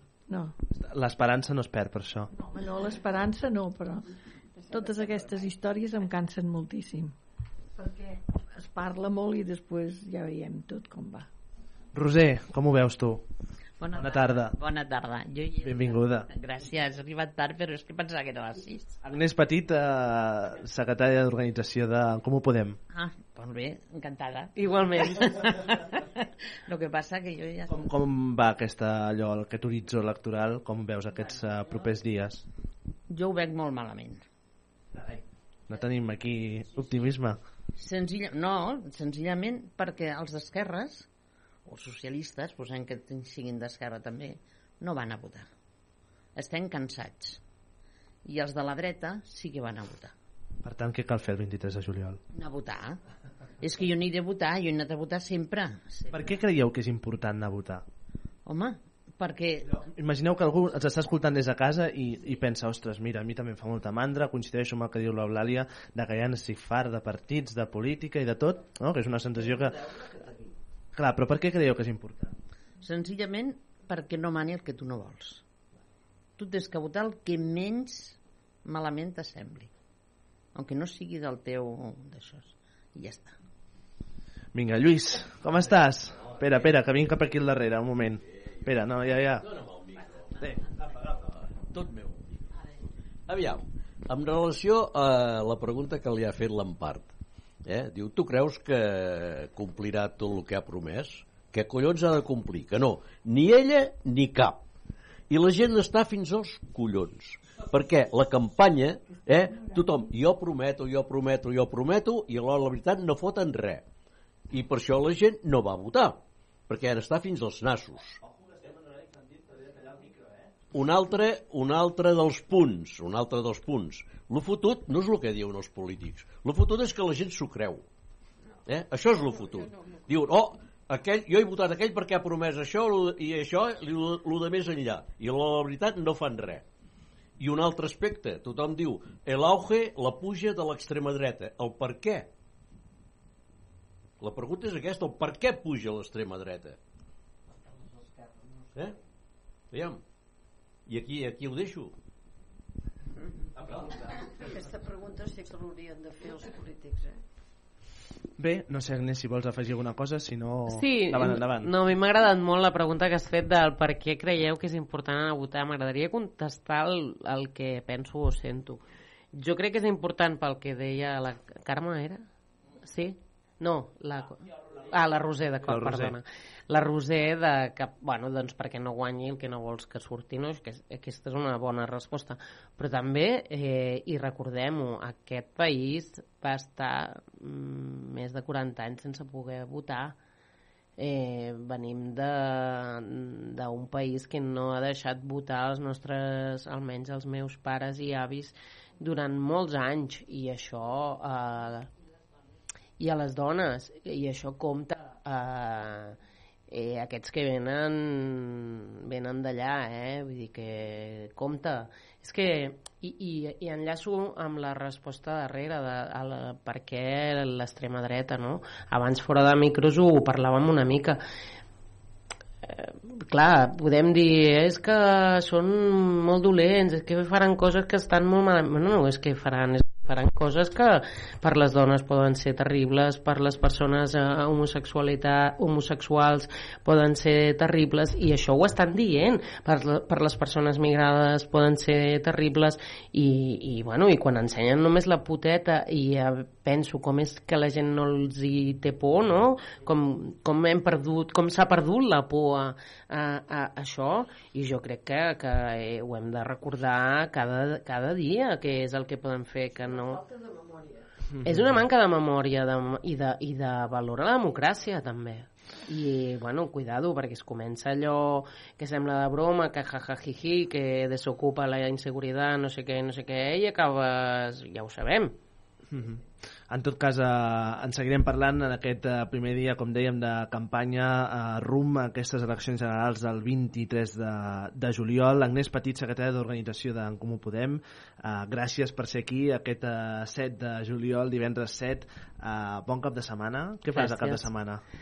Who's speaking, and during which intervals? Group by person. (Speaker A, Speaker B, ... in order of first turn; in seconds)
Speaker A: 0.3-0.6, 2.4-4.1, 4.7-7.2, 7.8-11.3
Speaker B: 0.7-2.3, 11.9-13.2, 13.9-14.5, 15.6-16.3, 19.0-22.8, 27.7-32.4, 35.7-37.4, 50.6-52.2, 56.1-57.8, 59.8-69.8, 71.0-72.3, 84.5-89.5, 158.4-161.7, 175.6-176.2, 261.4-261.7, 275.9-294.8
Speaker C: 4.6-4.9, 153.8-157.2, 259.9-261.1
Speaker D: 13.8-19.0, 22.9-27.9, 33.1-34.2, 37.8-41.1, 41.7-45.5, 46.4-47.4, 48.3-50.1, 52.3-53.0, 53.6-56.2, 58.5-59.7, 72.8-75.4, 76.4-79.7, 80.5-83.4
Speaker E: 24.6-25.5, 160.7-168.8, 169.3-172.2, 172.8-190.2, 191.0-201.9, 203.0-206.2, 206.7-221.2, 222.7-260.2, 261.4-275.4, 293.9-294.5
Speaker F: 89.4-92.4, 93.3-97.1, 97.7-104.6, 105.3-113.8, 114.5-118.2, 120.7-127.8, 128.7-136.7, 137.4-142.3, 144.2-146.8, 149.7-150.0, 150.9-151.9